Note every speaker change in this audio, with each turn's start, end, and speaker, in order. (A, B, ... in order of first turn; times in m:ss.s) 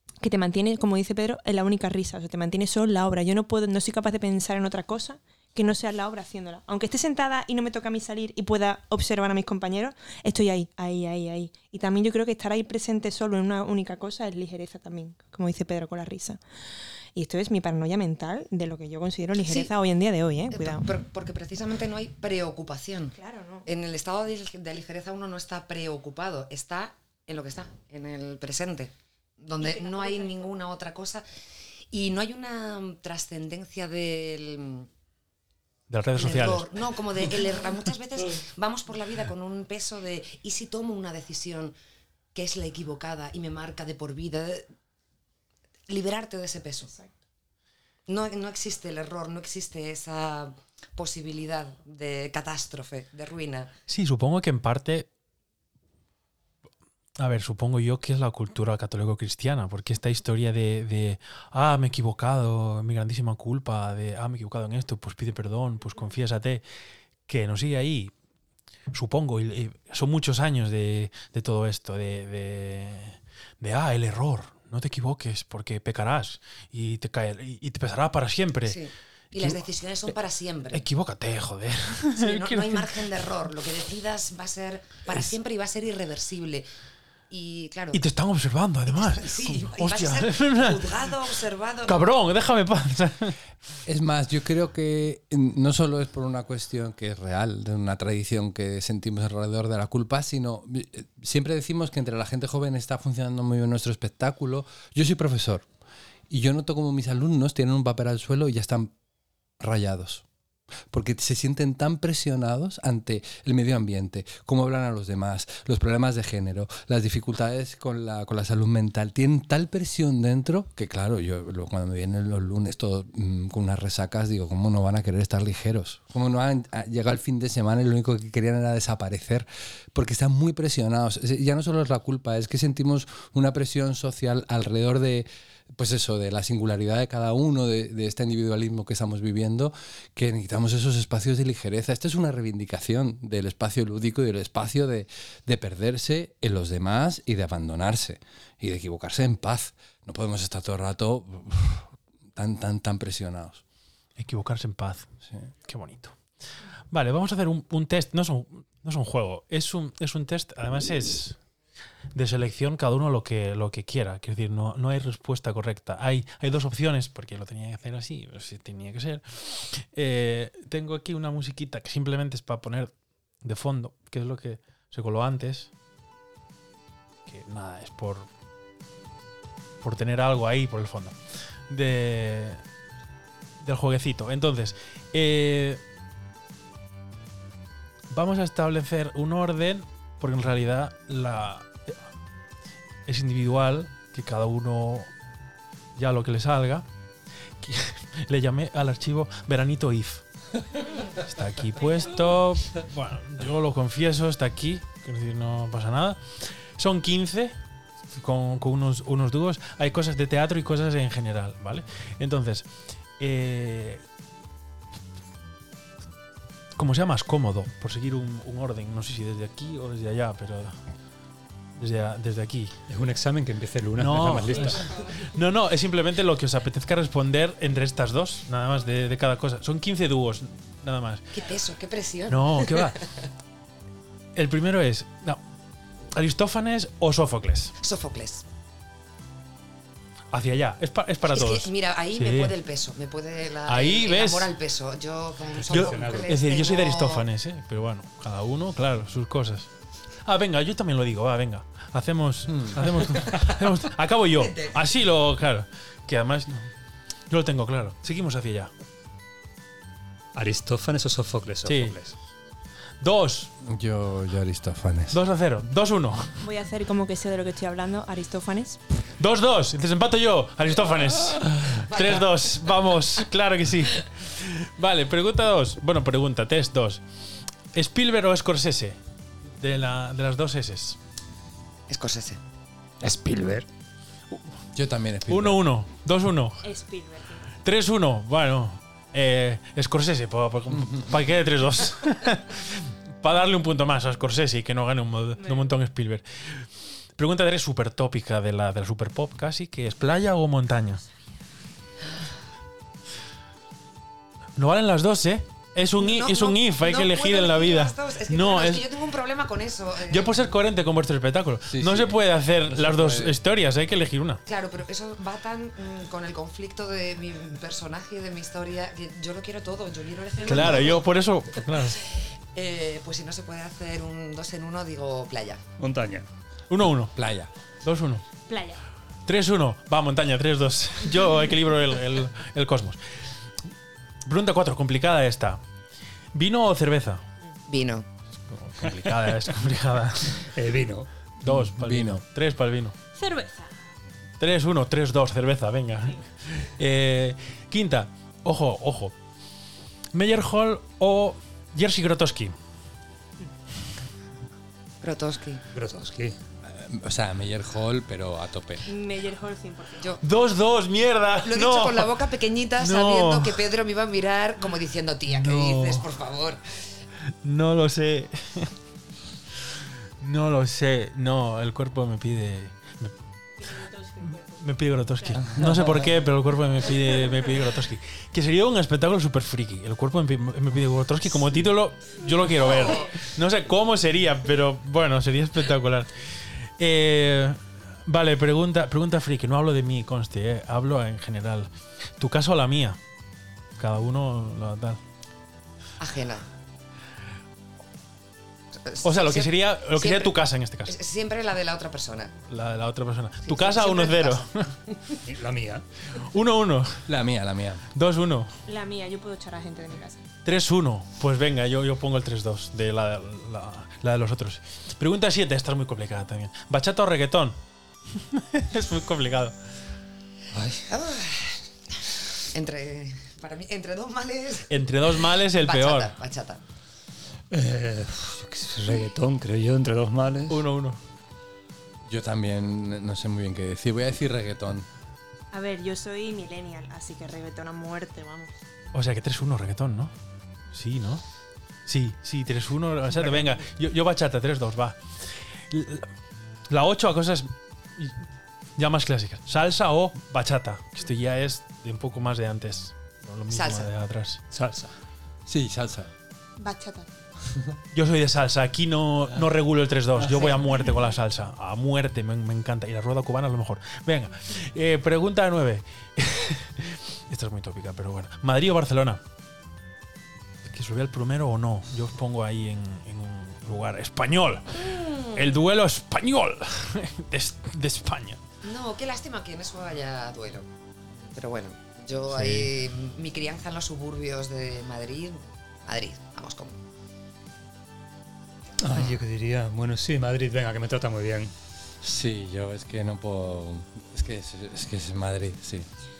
0:00.2-0:16.4 A
0:17.2-0:20.9 A
0:19.4-0:19.7 B
0:20.5-0:23.2 B
0:23.2-0:23.7 A
0:23.7-0:31.2 B
0:29.6-0:30.5 A
0:31.9-0:34.9 B
0:35.9-0:36.7 C
0:36.1-0:41.8 B
0:42.3-0:44.7 B
0:45.9-0:46.9 B
0:48.1-0:53.7 B
0:53.9-0:55.1 C
0:57.2-1:06.6 C
1:07.2-1:08.1 C
1:08.9-1:18.8 C
1:18.6-1:20.9 B
1:19.4-1:19.6 C
1:20.7-1:23.0 C
1:22.2-1:26.7 B
1:27.3-1:28.1 B
1:27.9-1:31.1 C
1:28.9-1:32.1 B
1:31.9-1:33.4 C
1:33.9-1:45.7 D
1:46.3-1:48.9 D
1:49.6-1:50.2 D
1:50.9-2:33.6 D
2:34.2-2:35.1 C
2:35.6-2:36.2 C
2:36.9-2:41.4 C
2:42.1-2:55.7 C
2:57.3-2:58.3 C
2:59.8-3:01.2 C
3:01.7-3:02.6 C
3:03.6-3:05.8 C
3:08.1-3:12.0 C
3:13.1-3:15.1 C
3:16.0-3:16.9 C
3:17.6-3:20.2 C
3:21.1-3:27.6 C
3:28.1-3:34.0 C
3:36.8-3:40.8 C
3:41.8-3:42.7 C
3:42.9-3:45.1 E
3:44.0-3:51.2 C
3:51.3-3:53.0 B
3:52.3-3:53.0 C
3:54.4-3:55.4 C
3:56.1-3:57.8 C
3:57.8-3:58.4 B
4:00.3-4:02.5 C
4:01.3-4:07.3 B
4:03.7-4:04.5 C
4:05.5-4:06.3 E
4:05.7-4:09.7 C
4:10.2-4:16.7 C
4:12.5-4:12.8 D
4:14.3-4:14.8 B
4:17.3-4:18.7 C
4:20.4-4:22.2 E
4:21.6-4:22.0 C
4:23.0-4:23.5 C
4:23.6-4:25.2 D
4:25.1-4:26.4 C
4:26.4-4:28.8 A
4:29.2-4:37.0 C
4:31.8-4:32.6 B
4:37.7-4:39.0 C
4:39.5-4:41.0 C
4:41.9-4:42.4 B
4:43.0-4:43.7 E
4:44.8-4:45.6 D
4:45.3-4:46.7 C
4:46.6-4:47.5 A
4:47.6-5:01.0 C
4:50.7-4:51.1 D
4:55.4-4:55.7 A
5:04.6-5:08.8 C
5:06.0-5:10.3 B
5:10.1-5:14.4 C
5:11.7-5:13.4 D
5:14.5-5:25.6 B
5:20.4-5:22.0 C
5:25.8-5:26.2 E
5:26.7-5:27.2 C
5:27.2-5:27.5 D
5:27.8-5:28.2 C
5:28.5-5:28.8 A
5:29.3-5:33.0 C
5:34.3-5:35.6 C
5:36.3-5:37.2 C
5:37.7-5:38.1 B
5:38.5-5:40.5 C
5:40.4-5:41.1 E
5:41.4-5:43.0 C
5:41.4-5:42.2 D
5:43.2-5:43.8 A
5:44.4-5:49.2 C
5:50.1-5:52.6 C
5:55.0-5:55.6 B
5:55.7-5:56.4 E
5:56.6-5:58.9 D
5:58.9-6:00.2 A
6:00.2-6:02.1 C
6:01.4-6:07.0 B
6:02.8-6:03.6 C
6:05.3-6:06.1 C
6:07.4-6:08.7 C
6:09.7-6:13.1 C
6:13.7-6:14.6 A
6:14.2-6:33.0 C
6:22.7-6:23.1 B
6:33.8-6:35.0 C
6:36.0-6:36.5 B
6:38.8-6:42.4 B
6:39.0-6:40.9 C
6:42.5-6:44.7 C
6:43.4-6:45.0 B
6:45.3-6:45.8 E
6:46.1-6:47.1 C
6:47.1-6:47.8 D
6:47.9-6:48.5 C
6:48.7-6:50.3 A
6:50.4-6:57.6 C
6:58.1-6:59.6 C
7:00.6-7:06.6 B
7:04.7-7:06.1 C
7:07.5-7:10.6 E
7:10.5-7:11.0 C
7:12.1-7:14.9 D
7:15.5-7:18.6 A
7:18.9-7:20.1 C
7:20.7-7:21.2 C
7:21.9-7:26.1 C
7:26.7-7:28.2 C
7:28.8-7:34.4 C
7:33.5-7:33.9 B
7:34.5-7:34.9 E
7:35.5-7:36.1 D
7:36.6-7:37.1 A
7:37.9-7:49.2 C
7:50.6-7:58.4 C
7:54.8-7:55.6 B
7:58.6-8:06.8 B
8:02.3-8:02.7 D
8:08.8-8:11.5 E
8:12.0-8:15.9 D